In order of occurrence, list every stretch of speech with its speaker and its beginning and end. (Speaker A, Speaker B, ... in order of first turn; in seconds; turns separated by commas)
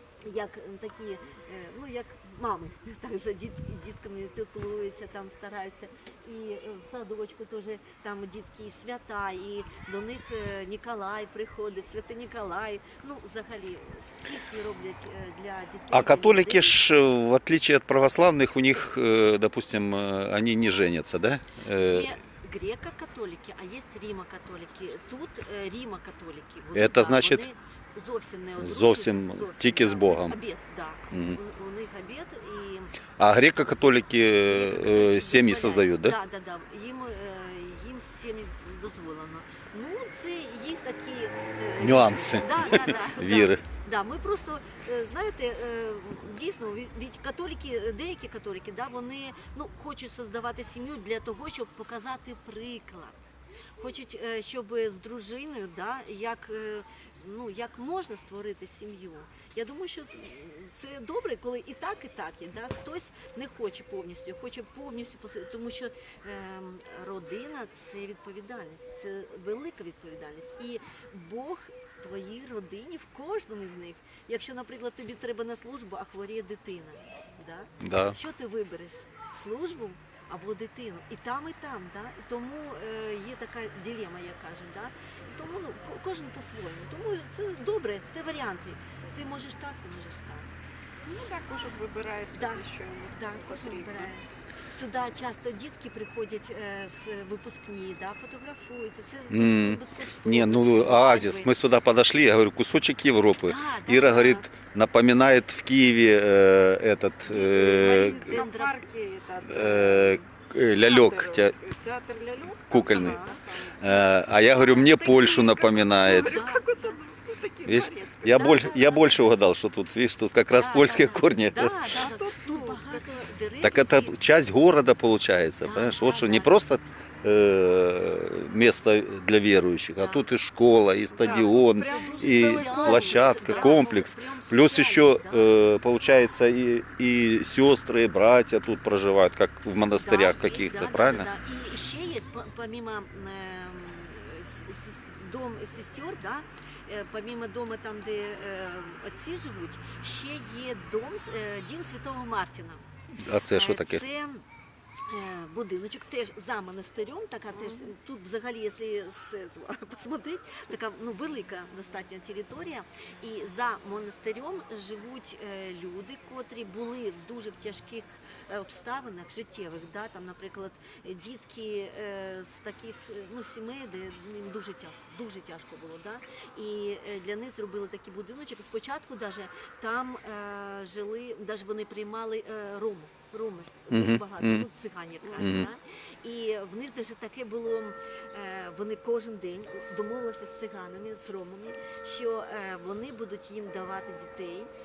Speaker A: 0.2-16.8, Speaker B: 15.9-22.1, Speaker A: 21.7-33.0, Speaker B: 26.7-27.4, Speaker B: 28.6-30.4, Speaker B: 31.1-31.4, Speaker B: 33.2-36.1, Speaker A: 33.6-33.9, Speaker A: 34.4-90.5, Speaker B: 41.8-43.6, Speaker B: 77.8-78.2, Speaker C: 91.0-94.1, Speaker A: 92.3-101.5, Speaker B: 99.3-108.4, Speaker A: 103.4-104.5, Speaker A: 107.3-108.8, Speaker C: 107.8-118.6, Speaker B: 109.4-111.5, Speaker B: 112.7-113.2, Speaker A: 112.7-113.4, Speaker B: 113.8-116.4, Speaker A: 116.0-117.0, Speaker B: 117.6-122.0, Speaker A: 118.3-119.3, Speaker A: 120.5-124.1, Speaker C: 121.9-123.1, Speaker B: 123.6-141.3, Speaker A: 125.6-126.6, Speaker A: 130.0-130.3, Speaker C: 131.1-133.8, Speaker A: 131.3-135.6, Speaker A: 140.0-152.9, Speaker B: 153.2-154.0, Speaker A: 153.4-154.4, Speaker A: 155.1-194.7, Speaker C: 157.5-157.9, Speaker B: 183.9-184.7, Speaker C: 185.2-185.6, Speaker B: 185.4-185.7